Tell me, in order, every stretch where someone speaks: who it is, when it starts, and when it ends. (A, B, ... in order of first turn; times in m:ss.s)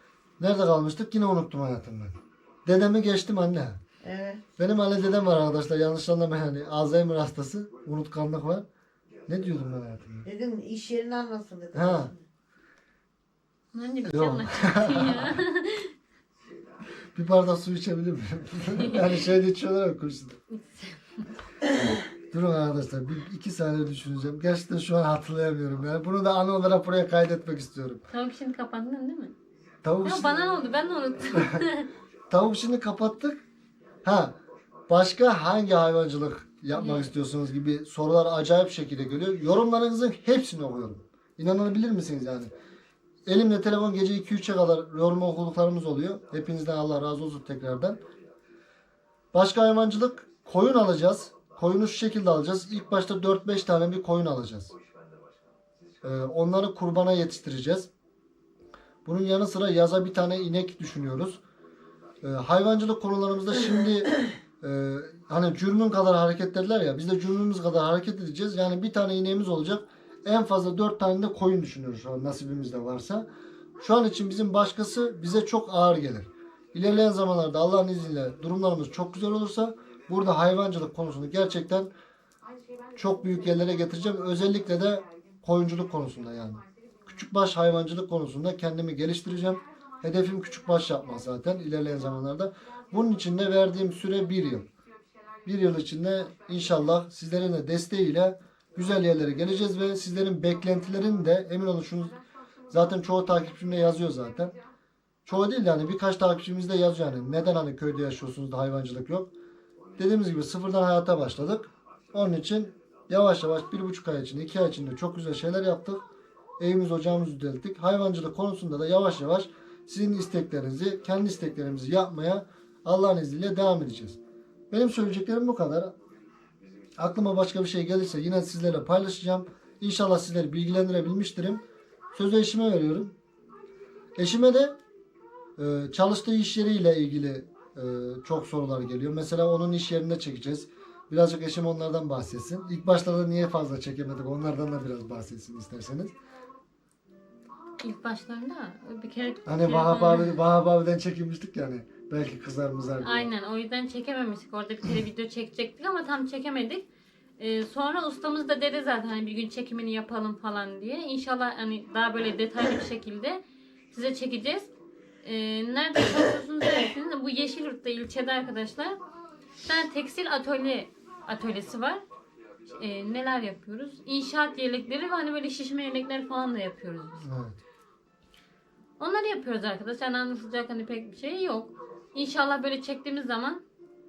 0:00.4-0:03.8 A
0:04.0-0:04.4 B
0:04.6-0:08.6 A
0:09.3-0:10.3 A
0:10.2-0:12.2 B
0:11.7-0:12.1 A
0:13.7-0:15.9 C
0:14.1-0:15.4 A
0:17.1-0:20.4 A
0:20.5-0:21.3 C
0:22.3-0:28.0 A
0:28.1-0:29.3 C
0:29.8-0:30.4 A
0:30.0-0:31.9 C
0:31.3-0:31.6 A
0:32.3-0:33.4 A
0:34.0-0:34.4 A
0:34.9-0:42.5 A
0:36.7-0:37.1 C
0:43.2-0:48.0 A
0:49.3-0:54.7 A
0:56.0-0:57.9 A
0:59.0-1:01.4 A
1:02.2-1:13.2 A
1:13.8-1:21.9 A
1:22.9-1:34.7 A
1:35.4-1:42.2 A
1:42.7-1:44.5 A
1:45.2-1:49.3 A
1:50.0-1:56.0 A
1:56.6-2:04.2 A
2:04.7-2:05.9 A
2:07.0-2:11.6 A
2:12.1-2:13.1 A
2:14.2-2:14.8 A
2:15.6-2:26.1 A
2:27.8-2:30.4 C
2:29.4-2:33.3 A
2:33.0-2:36.8 C
2:37.4-2:43.4 C
2:43.9-2:44.7 C
2:45.2-2:49.0 C
2:49.6-2:52.0 C
2:52.7-2:57.2 C
2:57.2-2:57.6 A
2:59.0-3:03.6 C